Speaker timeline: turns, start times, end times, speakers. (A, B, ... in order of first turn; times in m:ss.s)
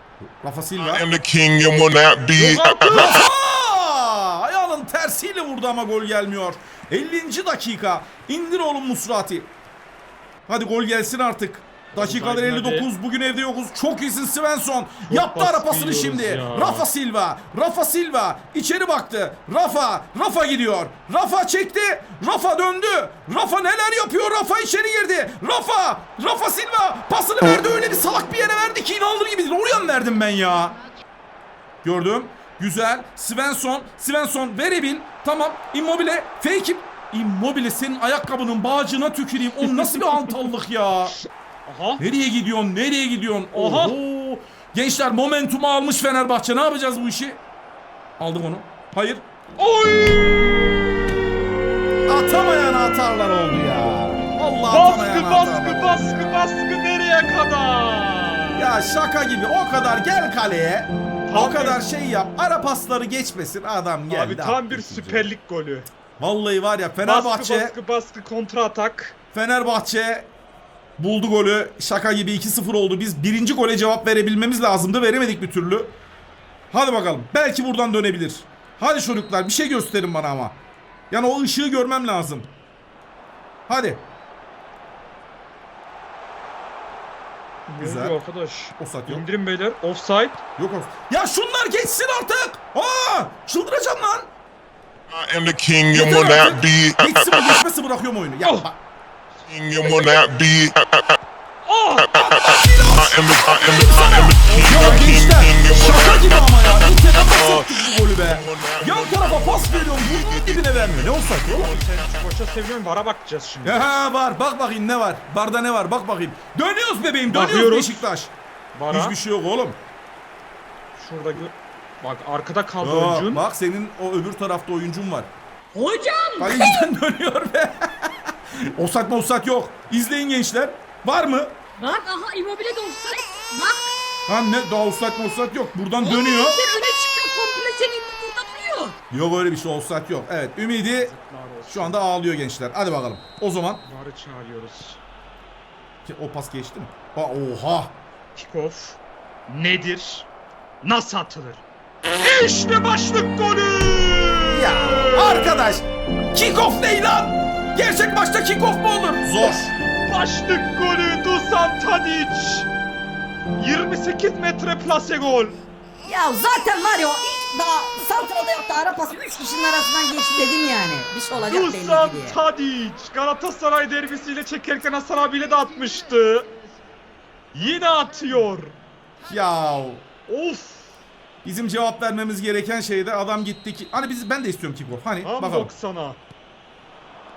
0:00.2-0:01.1 A
0:00.8-0:03.2 B
0:02.4-0:03.2 C
0:02.9-0:09.5 A
0:10.5-0:30.8 A
0:12.0-0:12.9 C
0:15.1-0:16.9 C
0:31.8-0:41.2 A
0:41.7-0:42.0 C
0:42.0-0:47.4 A
0:43.5-0:44.0 C
0:48.2-0:49.2 A
0:49.6-0:50.7 C
0:52.1-0:56.5 A
0:54.7-0:58.7 C
0:58.6-1:05.3 A
1:01.3-1:01.9 C
1:04.1-1:05.9 C
1:06.2-1:07.7 A
1:07.0-1:09.2 C
1:09.3-1:10.3 A
1:11.0-1:15.9 A
1:16.7-1:20.6 A
1:21.1-1:22.5 A
1:23.7-1:24.0 A
1:27.7-1:30.4 C
1:27.8-1:28.2 A
1:28.8-1:29.2 A
1:30.6-1:34.3 A
1:35.1-1:37.6 B
1:35.9-1:38.8 A
1:38.4-1:38.7 C
1:39.4-1:41.2 B
1:41.6-1:42.1 C
1:42.1-1:51.8 A
1:42.2-1:51.2 B
1:44.4-1:45.3 C
1:51.4-1:54.0 C
1:53.6-1:58.3 A
1:57.3-1:58.1 C
1:58.7-1:59.2 C
1:58.9-1:59.8 A
2:01.0-2:03.4 C
2:02.8-2:05.3 A
2:05.7-2:06.9 D
2:06.4-2:08.1 A
2:08.8-2:11.6 A
2:11.8-2:13.9 D
2:14.3-2:16.6 A
2:16.0-2:19.0 D
2:19.1-2:21.1 A
2:20.9-2:22.0 C
2:21.7-2:23.8 A
2:23.8-2:25.0 C
2:26.1-2:27.9 A
2:28.4-2:30.3 C
2:30.8-2:31.6 C
2:32.2-2:35.6 C
2:34.5-2:39.7 A
2:40.1-2:42.7 C
2:43.6-2:45.6 C
2:46.0-2:52.4 E
2:51.4-2:56.5 C
2:57.5-2:58.7 C
2:59.2-3:00.0 A
3:00.3-3:00.9 C
3:01.4-3:05.7 A
3:05.2-3:06.2 C